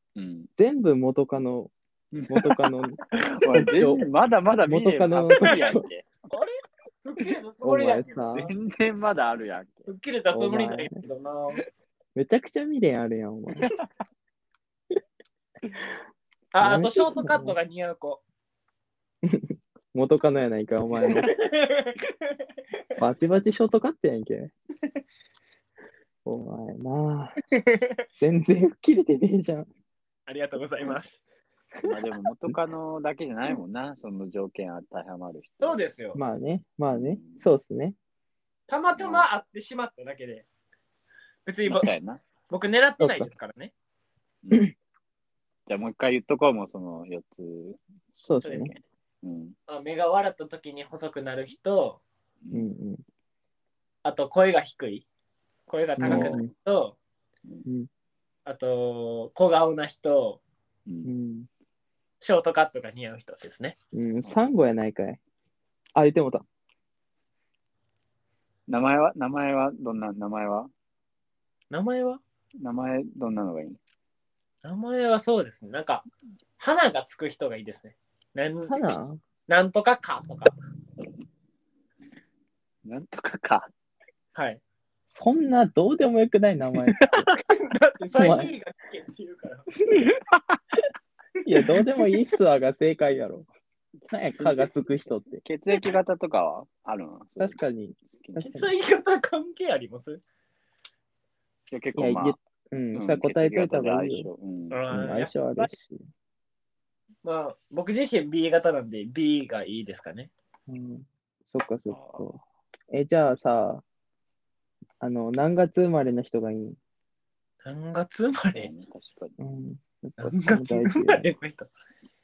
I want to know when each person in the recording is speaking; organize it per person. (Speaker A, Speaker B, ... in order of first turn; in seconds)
Speaker A: 0.1-0.5, 2.1-2.5, 3.1-6.0, 8.3-9.9, 13.6-13.8, 31.8-35.8, 36.9-37.4, 38.9-39.2, 41.6-42.2, 44.4-44.7, 45.7-47.8, 48.4-49.5, 52.4-52.7, 56.0-56.4, 68.7-70.7, 72.6-73.8, 82.8-83.7, 87.0-87.3, 90.3-90.6, 94.3-94.7, 95.4-98.6, 101.7-102.4, 102.9-104.9, 111.9-112.3, 118.5-119.4
Speaker B: 0.6-1.7, 2.3-4.0, 4.7-5.8, 7.6-8.5, 10.3-11.0, 12.1-13.7, 16.6-17.6, 19.2-21.3, 23.0-24.5, 26.2-27.4, 28.2-29.7, 36.1-38.0, 43.0-43.3, 48.1-48.7, 52.5-53.0, 56.0-56.5, 61.0-61.5, 63.9-65.2, 66.0-66.4, 78.7-79.2, 85.1-87.3, 88.1-88.5, 91.4-93.5, 94.1-95.4, 97.4-98.7, 102.0-104.3, 104.9-106.0, 110.7-113.8, 115.0-116.8, 119.4-121.3
Speaker C: 6.2-8.2, 9.9-11.6, 16.5-18.2, 21.0-22.1, 27.6-27.9, 30.3-31.2, 35.6-36.2, 38.7-40.4, 41.5-41.9, 42.5-43.7, 48.4-48.7, 49.7-52.0, 54.0-55.0, 55.7-57.0, 58.5-60.4, 62.2-63.7, 71.7-72.2, 74.6-76.0, 76.6-78.7, 79.5-80.5, 84.3-84.6, 87.6-89.7, 98.4-100.2, 104.7-105.7, 107.2-110.3, 117.6-118.7, 120.2-121.7